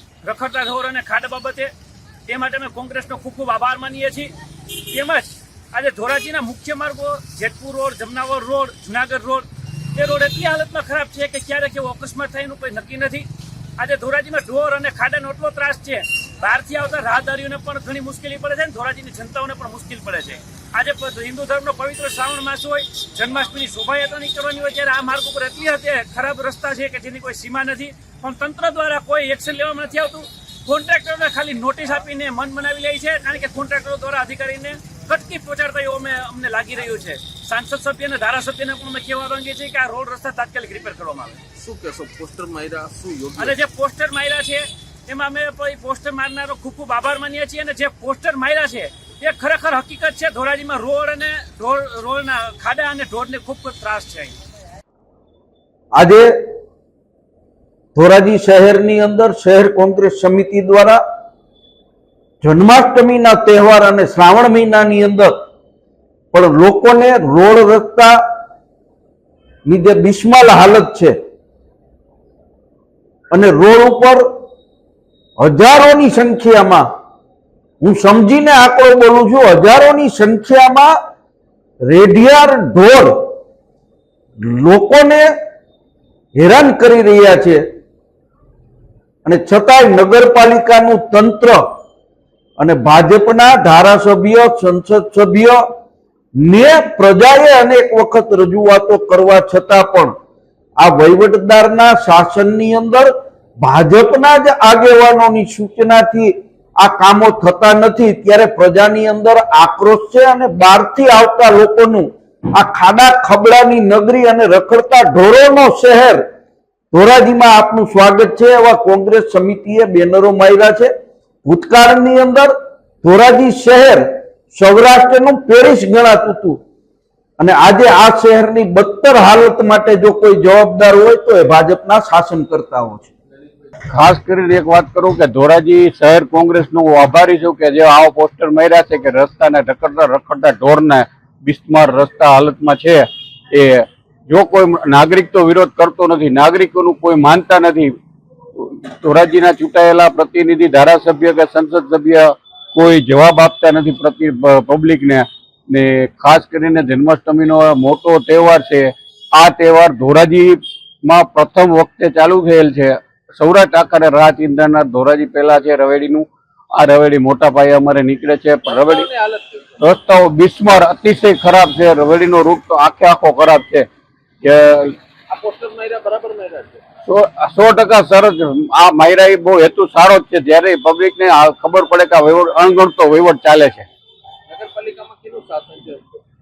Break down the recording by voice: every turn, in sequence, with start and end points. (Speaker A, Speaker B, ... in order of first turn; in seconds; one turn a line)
Speaker A: 0.2-1.7
Speaker A: 2.3-4.3
Speaker A: 4.9-13.3
Speaker A: 13.8-41.4
Speaker B: 41.5-43.6
Speaker A: 43.4-54.4
Speaker C: 55.9-56.3
Speaker C: 57.9-61.0
Speaker C: 62.4-65.3
Speaker C: 66.3-68.2
Speaker C: 69.7-71.1
Speaker C: 73.3-74.2
Speaker C: 75.4-76.8
Speaker C: 77.8-80.9
Speaker C: 81.9-83.2
Speaker C: 84.4-85.3
Speaker C: 86.3-87.6
Speaker C: 89.2-91.6
Speaker C: 92.6-95.6
Speaker C: 96.4-100.1
Speaker C: 100.8-116.2
Speaker C: 116.9-120.9
Speaker C: 121.4-126.6
Speaker C: 127.4-133.1
Speaker D: 133.9-147.9
Speaker D: 148.6-169.1
Speaker B: 168.6-169.8
Speaker D: 169.8-173.9
Speaker D: 174.4-174.9
Speaker B: 175.3-176.8
Speaker D: 177.1-183.9
Speaker B: 184.5-186.2